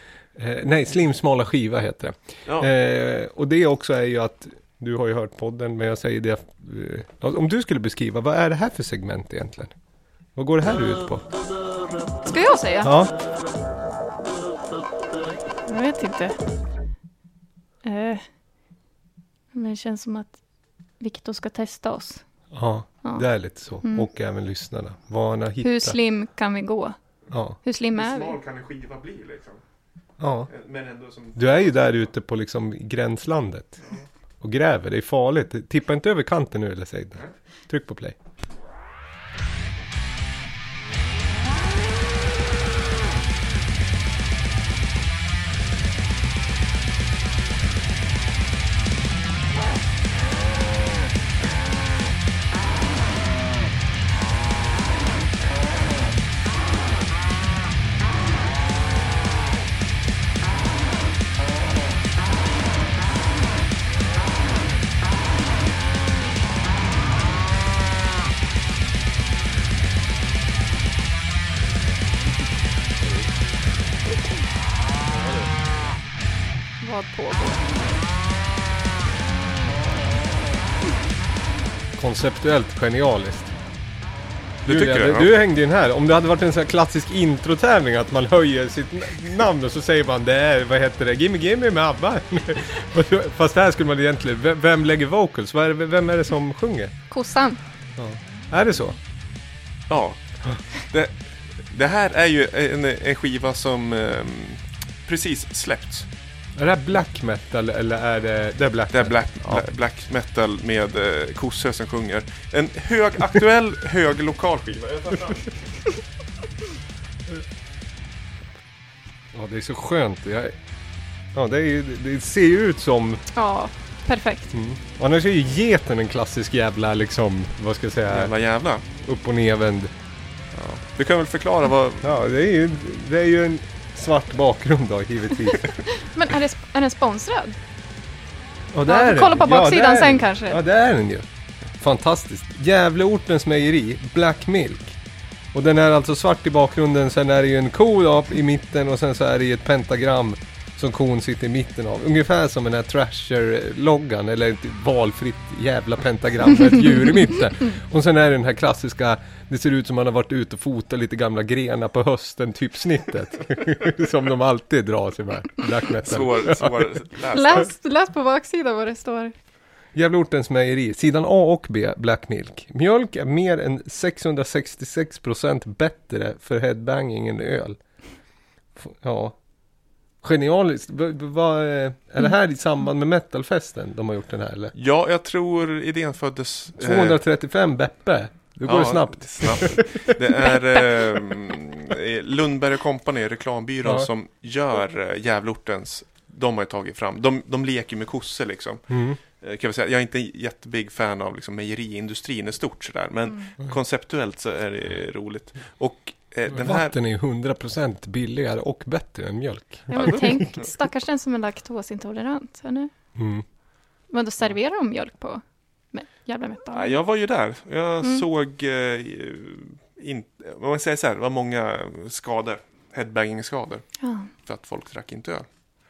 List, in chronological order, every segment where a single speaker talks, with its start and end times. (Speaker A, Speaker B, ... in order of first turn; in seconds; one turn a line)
Speaker A: 0.4-9.7
Speaker A: 10.4-11.3
Speaker B: 12.2-12.9
Speaker A: 12.8-13.1
Speaker B: 15.7-16.4
Speaker B: 17.8-18.2
Speaker B: 19.5-20.4
Speaker B: 21.0-22.2
Speaker A: 22.5-26.0
Speaker B: 25.6-27.0
Speaker A: 27.3-27.6
Speaker B: 27.6-28.4
Speaker C: 28.0-29.6
Speaker A: 30.2-30.5
Speaker C: 30.5-31.6
Speaker A: 31.4-33.8
Speaker A: 34.4-38.2
Speaker B: 76.8-77.7
Speaker A: 82.0-83.5
Speaker C: 84.7-85.4
Speaker A: 84.7-96.9
Speaker B: 97.1-97.6
Speaker A: 98.0-99.0
Speaker C: 99.9-100.2
Speaker C: 100.7-106.1
Speaker A: 106.6-109.6
Speaker C: 108.9-115.5
Speaker A: 119.3-120.5
Speaker A: 121.3-123.2
Speaker B: 123.3-124.5
Speaker A: 124.5-128.3
Speaker C: 128.1-128.8
Speaker A: 129.0-129.9
Speaker C: 130.5-132.2
Speaker A: 132.0-135.8
Speaker B: 136.0-137.6
Speaker A: 138.7-141.3
Speaker B: 138.9-140.6
Speaker A: 141.8-145.0
Speaker A: 145.5-166.7
Speaker C: 166.0-167.7
Speaker B: 167.3-169.3
Speaker A: 169.9-177.8
Speaker A: 178.8-179.4
Speaker A: 180.2-184.7
Speaker C: 184.7-187.2
Speaker A: 186.8-190.2
Speaker C: 188.7-198.8
Speaker A: 193.8-194.1
Speaker A: 198.9-199.2
Speaker C: 199.4-206.9
Speaker A: 206.5-210.4
Speaker B: 209.9-212.9
Speaker C: 209.9-210.6
Speaker A: 213.2-213.4
Speaker B: 214.1-216.9
Speaker C: 216.7-223.8
Speaker B: 224.0-224.3
Speaker C: 224.4-225.5